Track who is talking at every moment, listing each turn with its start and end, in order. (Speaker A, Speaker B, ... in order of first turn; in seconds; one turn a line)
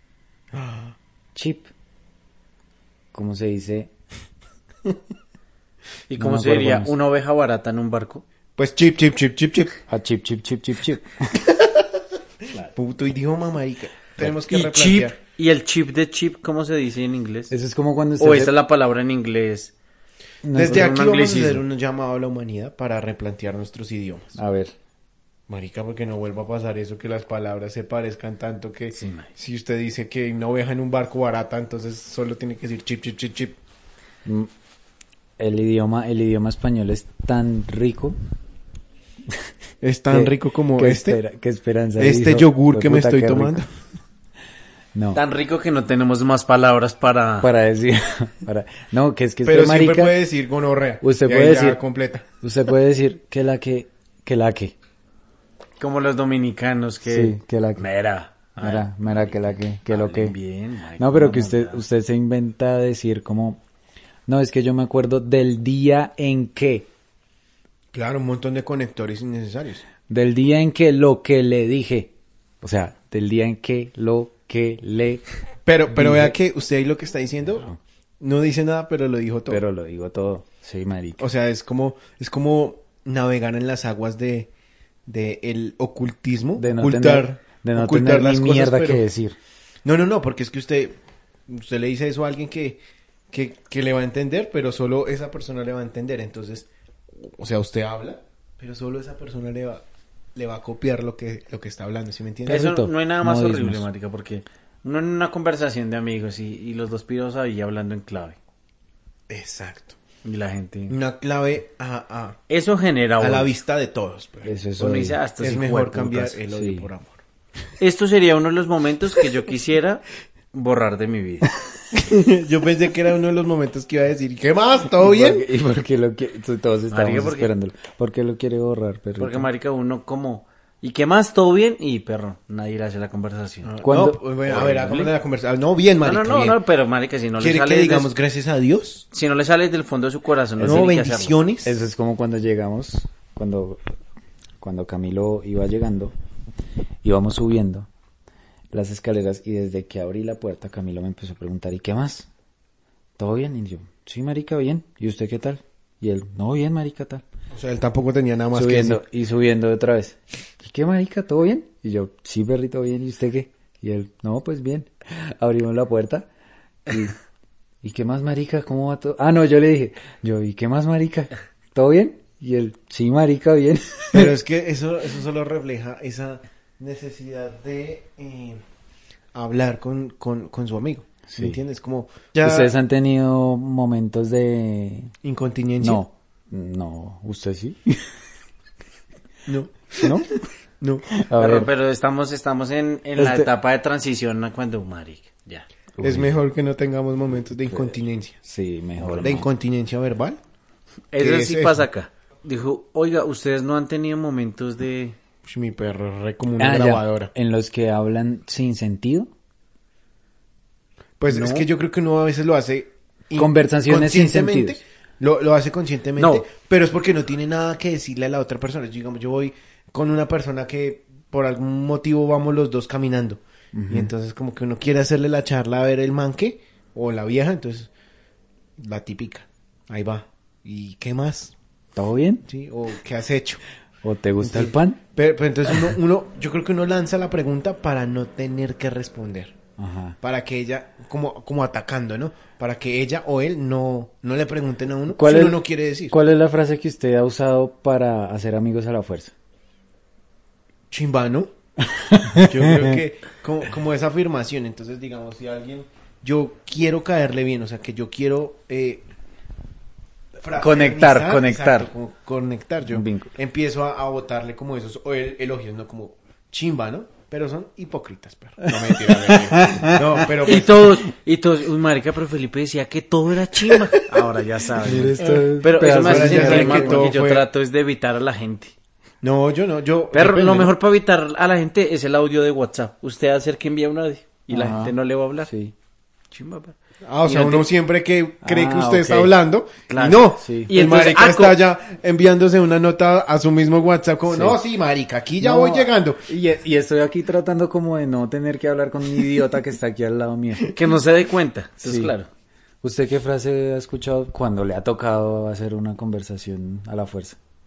Speaker A: 0.5-0.9
Speaker B: 1.4-1.7
Speaker B: 3.1-3.9
Speaker C: 6.1-8.2
Speaker B: 6.2-6.9
Speaker A: 8.6-9.8
Speaker B: 9.9-11.4
Speaker A: 11.3-12.0
Speaker A: 12.7-15.2
Speaker C: 14.2-17.5
Speaker B: 17.5-18.5
Speaker C: 18.2-19.7
Speaker B: 20.4-21.2
Speaker A: 20.5-24.4
Speaker C: 20.6-21.6
Speaker B: 24.4-24.7
Speaker A: 25.5-33.6
Speaker C: 28.9-29.3
Speaker B: 34.2-34.5
Speaker B: 35.4-38.2
Speaker A: 39.8-41.2
Speaker B: 40.1-43.6
Speaker A: 42.0-43.7
Speaker B: 45.0-45.2
Speaker C: 45.1-47.5
Speaker B: 47.4-50.2
Speaker A: 49.4-52.3
Speaker B: 51.0-51.8
Speaker B: 52.4-54.8
Speaker C: 55.8-61.8
Speaker B: 57.1-57.9
Speaker B: 58.6-60.4
Speaker B: 61.0-63.6
Speaker B: 64.3-66.9
Speaker A: 67.9-69.8
Speaker B: 70.1-75.2
Speaker A: 75.7-79.6
Speaker B: 75.9-76.4
Speaker B: 79.5-81.3
Speaker A: 81.2-84.5
Speaker A: 85.1-89.0
Speaker B: 86.6-89.4
Speaker A: 89.8-91.0
Speaker A: 91.5-92.8
Speaker A: 93.3-99.8
Speaker A: 100.3-102.7
Speaker B: 102.5-103.9
Speaker C: 102.5-108.4
Speaker A: 109.3-110.0
Speaker C: 110.2-111.0
Speaker A: 110.9-112.4
Speaker C: 112.5-113.5
Speaker A: 113.2-114.5
Speaker B: 114.4-115.2
Speaker C: 114.8-116.4
Speaker A: 115.4-117.2
Speaker B: 116.5-116.9
Speaker C: 117.8-121.5
Speaker A: 121.9-125.5
Speaker B: 125.0-129.5
Speaker C: 126.9-127.5
Speaker C: 129.2-133.7
Speaker A: 133.6-136.6
Speaker B: 133.8-134.2
Speaker C: 134.5-135.1
Speaker C: 136.0-138.1
Speaker A: 137.4-139.1
Speaker C: 139.1-141.3
Speaker B: 140.6-140.8
Speaker A: 140.6-141.8
Speaker B: 141.7-143.8
Speaker B: 144.6-146.1
Speaker B: 147.0-147.9
Speaker B: 148.7-152.3
Speaker B: 153.2-157.2
Speaker A: 157.5-159.0
Speaker B: 158.6-166.3
Speaker B: 166.9-167.2
Speaker B: 167.8-174.3
Speaker A: 174.1-178.6
Speaker A: 179.3-182.7
Speaker B: 181.3-181.6
Speaker B: 182.4-185.1
Speaker A: 185.2-186.0
Speaker B: 185.8-188.0
Speaker A: 189.5-191.1
Speaker B: 191.2-191.7
Speaker C: 191.4-195.7
Speaker B: 193.2-193.5
Speaker B: 196.0-196.4
Speaker A: 196.0-198.4
Speaker B: 198.4-199.5
Speaker A: 199.1-200.4
Speaker C: 201.1-205.2
Speaker A: 201.2-201.8
Speaker A: 205.4-207.3
Speaker B: 206.6-209.3
Speaker A: 211.2-227.9
Speaker C: 211.3-211.7
Speaker B: 213.4-214.8
Speaker C: 216.2-216.4
Speaker B: 223.7-224.1
Speaker A: 228.8-231.6
Speaker B: 231.9-232.5
Speaker A: 232.5-233.6
Speaker B: 234.0-235.0
Speaker A: 234.4-239.6
Speaker B: 239.8-240.2
Speaker A: 240.2-246.1
Speaker B: 245.1-249.3
Speaker A: 250.9-251.5
Speaker B: 251.9-253.0
Speaker A: 252.3-259.1
Speaker A: 260.4-271.0
Speaker B: 260.6-261.9
Speaker B: 262.9-263.3
Speaker B: 268.6-270.3
Speaker C: 270.4-278.7
Speaker A: 274.0-274.3
Speaker B: 274.8-277.1
Speaker A: 274.9-277.5
Speaker A: 279.2-280.8
Speaker C: 280.1-285.5
Speaker B: 284.5-285.7
Speaker C: 286.3-286.8
Speaker A: 287.1-296.2
Speaker C: 287.3-287.7
Speaker B: 288.4-289.3
Speaker C: 289.9-291.6
Speaker B: 290.4-290.7
Speaker B: 294.3-294.6
Speaker B: 295.4-300.7
Speaker C: 300.7-302.3
Speaker B: 301.8-302.1
Speaker B: 302.8-307.4